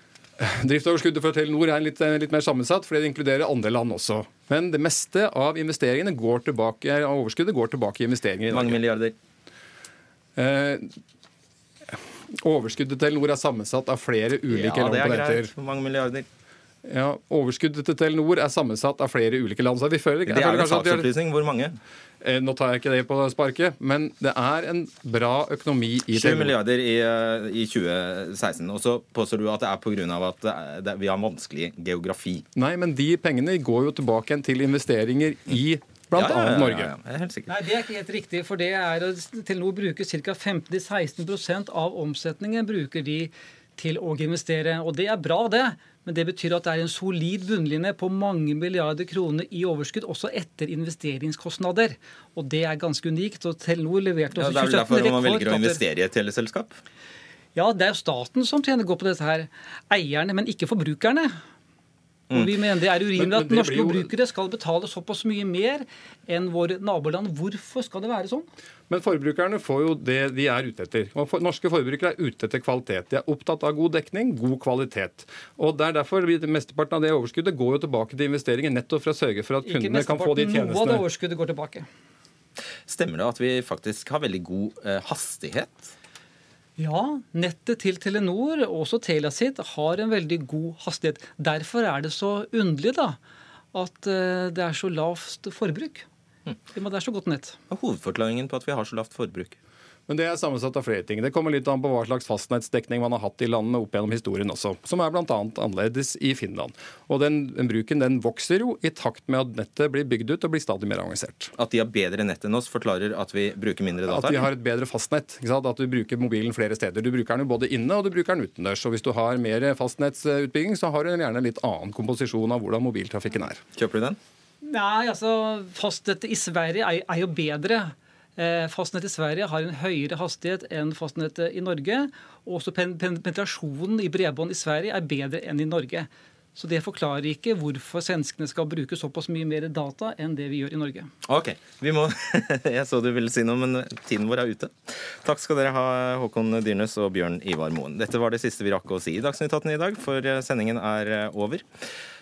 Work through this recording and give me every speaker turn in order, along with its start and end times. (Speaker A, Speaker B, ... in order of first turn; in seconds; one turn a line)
Speaker A: 0.4-8.8
Speaker B: 8.5-9.1
Speaker A: 10.4-11.0
Speaker A: 11.9-15.5
Speaker B: 14.5-16.3
Speaker A: 16.9-21.1
Speaker B: 20.2-21.8
Speaker A: 22.2-26.5
Speaker B: 26.1-32.5
Speaker A: 32.5-36.9
Speaker B: 36.1-37.5
Speaker C: 37.5-55.8
Speaker B: 54.4-56.8
Speaker C: 57.5-61.3
Speaker C: 62.3-68.5
Speaker A: 63.1-64.1
Speaker A: 68.9-81.0
Speaker C: 79.6-81.9
Speaker B: 82.9-85.9
Speaker C: 86.8-93.2
Speaker C: 93.7-96.1
Speaker C: 96.7-97.6
Speaker B: 97.7-99.6
Speaker A: 100.1-111.5
Speaker B: 111.6-114.5
Speaker A: 114.1-123.6
Speaker B: 123.8-124.2
Speaker C: 124.6-141.1
Speaker B: 141.2-151.7